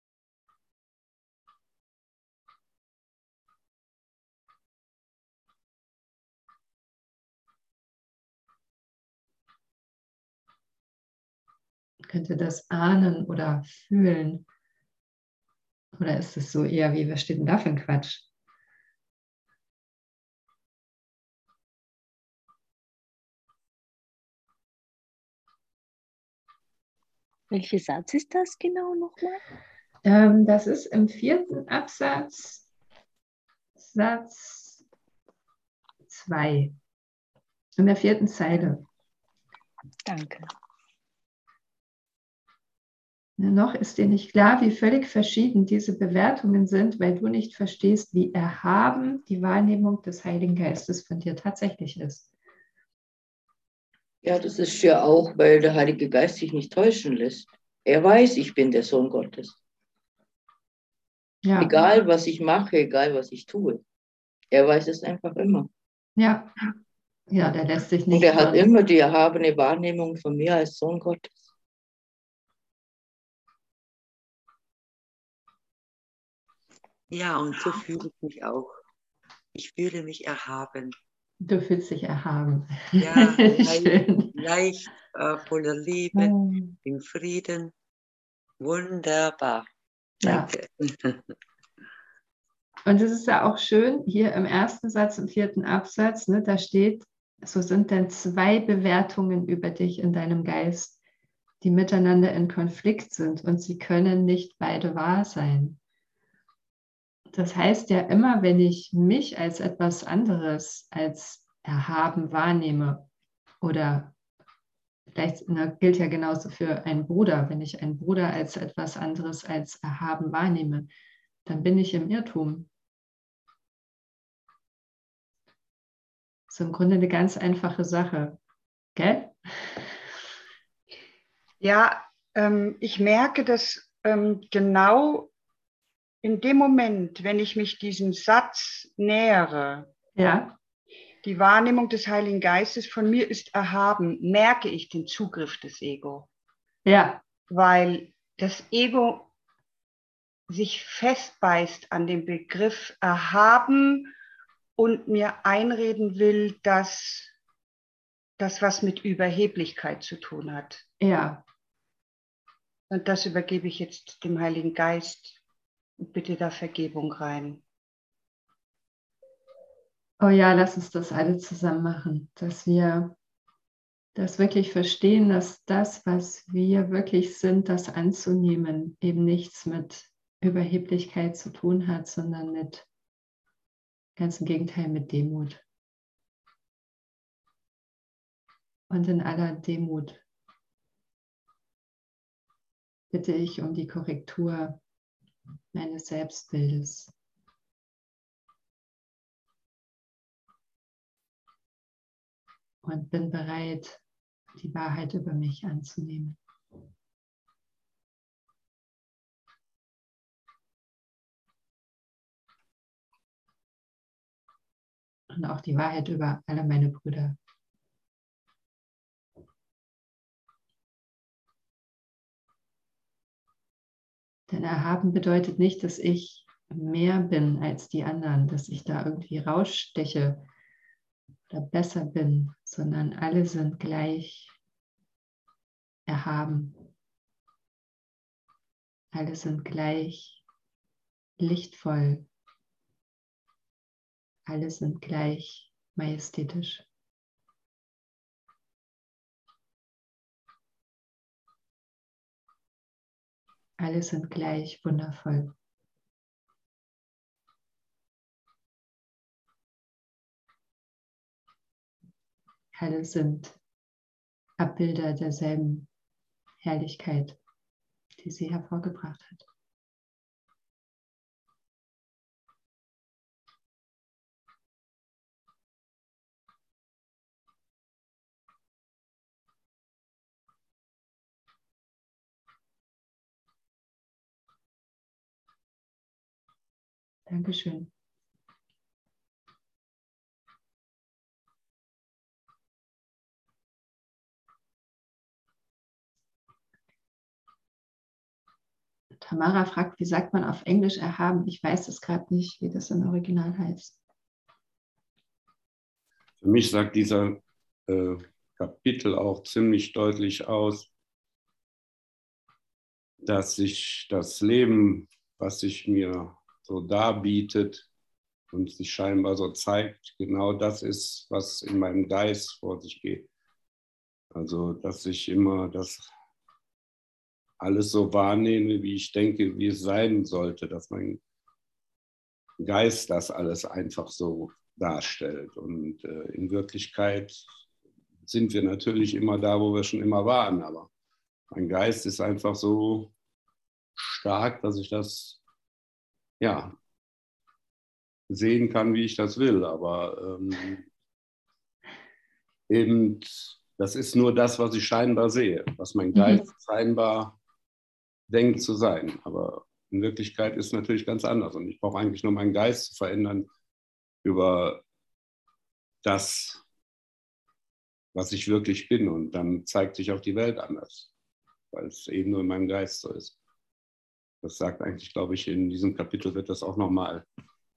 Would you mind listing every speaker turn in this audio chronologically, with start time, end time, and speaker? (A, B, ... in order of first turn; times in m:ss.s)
0:12.1-0:14.4 A
0:16.0-0:18.2 A
0:27.5-0:29.4 B
0:30.0-0:32.6 A
0:33.8-0:34.8 A
0:36.1-0:36.8 A
0:37.8-0:38.8 A
0:40.1-0:40.4 B
0:43.4-0:52.3 A
0:54.2-0:59.6 C
1:01.4-1:01.7 A
1:01.6-1:03.8 C
1:04.5-1:05.7 C
1:06.2-1:06.5 A
1:07.3-1:08.7 A
1:08.1-1:11.3 C
1:17.1-1:18.8 D
1:19.6-1:21.0 D
1:21.4-1:24.3 A
1:23.0-1:27.7 D
1:26.1-1:26.8 A
1:28.6-1:29.7 D
1:30.2-1:30.5 A
1:30.2-1:31.2 D
1:32.9-1:41.0 A
1:41.6-1:45.8 A
1:47.3-1:53.1 A
1:53.6-1:54.1 A
1:55.1-2:00.9 A
2:01.5-2:02.7 A
2:06.5-2:08.4 A
2:09.0-2:09.3 A
2:11.6-2:15.3 E
2:16.2-2:19.9 E
2:20.2-2:20.5 A
2:21.2-2:26.3 E
2:26.9-2:27.2 A
2:27.5-2:29.3 E
2:30.5-2:34.1 E
2:34.8-2:37.3 E
2:38.4-2:40.8 E
2:41.0-2:41.4 A
2:42.9-2:45.4 E
2:46.0-2:47.6 E
2:50.2-2:53.2 A
2:54.2-3:02.9 A
3:04.2-3:05.6 A
3:08.9-3:10.2 A
3:13.1-3:14.8 A
3:15.7-3:17.1 A
3:22.8-3:24.0 A
3:24.6-3:26.4 A
3:35.3-3:37.4 A
3:44.5-3:50.4 A
3:51.5-3:54.6 A
3:56.1-3:56.8 A
3:59.1-4:00.4 A
4:01.4-4:02.3 A
4:04.5-4:06.8 A
4:13.8-4:15.5 A
4:22.7-4:23.6 A
4:24.6-4:25.9 A
4:26.6-4:27.4 A
4:28.2-4:29.5 A
4:47.3-4:47.9 A
4:59.2-5:04.0 A
5:06.4-5:10.9 F
5:13.2-5:17.9 F
5:18.5-5:23.3 F
5:24.3-5:26.1 F
5:27.6-5:31.2 F
5:32.6-5:37.4 F
5:38.2-5:40.9 F
5:41.5-5:43.1 F
5:44.0-5:45.4 F
5:46.4-5:46.8 F
5:48.3-5:50.8 F
5:52.7-5:57.4 F
5:56.1-5:56.4 A
5:58.3-6:03.5 F
6:04.2-6:04.8 F
6:06.0-6:06.6 F
6:08.1-6:11.1 F
6:11.7-6:13.4 F
6:14.4-6:17.2 F